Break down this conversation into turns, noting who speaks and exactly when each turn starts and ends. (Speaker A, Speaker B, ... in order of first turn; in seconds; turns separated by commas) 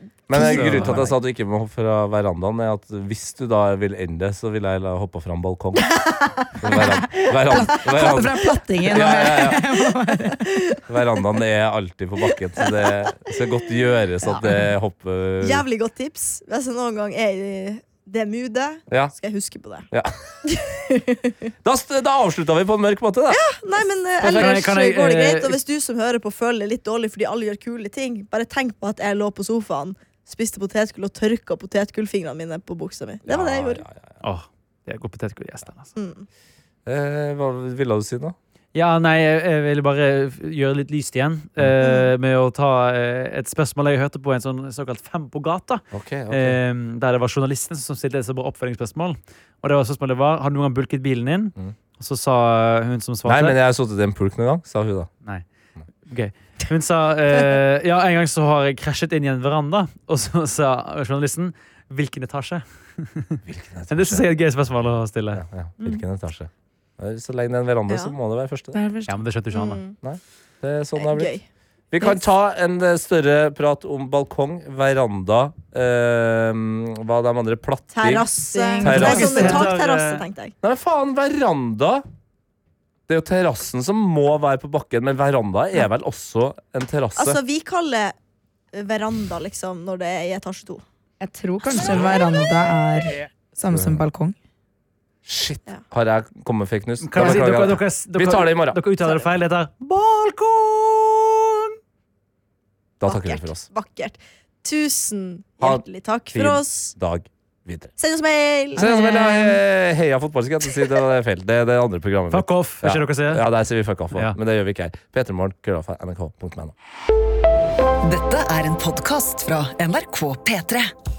Speaker A: 0.3-5.9, Speaker B: 0.3-1.1, Speaker C: 0.4-1.1, Speaker D: 5.8-6.5, Speaker A: 6.6-9.7, Speaker B: 6.8-10.6, Speaker A: 10.9-15.7, Speaker D: 12.6-13.1, Speaker D: 15.4-19.9, Speaker A: 19.9-20.3, Speaker D: 20.5-21.4, Speaker A: 21.6-23.4, Speaker D: 23.3-33.9, Speaker A: 24.2-24.6, Speaker C: 24.2-25.6, Speaker A: 33.3-34.0, Speaker C: 34.2-35.9, Speaker D: 36.0-36.3, Speaker A: 36.9-38.4, Speaker C: 38.7-53.6, Speaker D: 41.8-42.1, Speaker A: 45.9-46.6, Speaker A: 53.3-55.1, Speaker C: 56.0-66.0, Speaker A: 63.5-64.3, Speaker A: 65.3-68.8, Speaker D: 67.9-68.1, Speaker B: 68.7-69.2, Speaker C: 69.1-69.8, Speaker D: 69.5-70.0, Speaker A: 70.0-71.3, Speaker D: 71.0-71.5, Speaker A: 71.9-78.3, Speaker D: 77.9-80.5, Speaker B: 78.5-79.7, Speaker A: 78.8-79.5, Speaker C: 78.8-80.2, Speaker A: 80.6-82.0, Speaker A: 83.1-87.4, Speaker D: 87.2-88.2, Speaker D: 88.7-90.8, Speaker B: 91.2-94.3, Speaker A: 93.7-94.0, Speaker A: 95.3-98.8, Speaker C: 97.0-101.3, Speaker A: 103.0-103.7, Speaker D: 103.0-106.9, Speaker A: 105.6-107.9, Speaker D: 108.0-108.9, Speaker B: 108.8-109.6, Speaker A: 108.8-116.7, Speaker C: 112.3-113.5, Speaker E: 118.0-120.9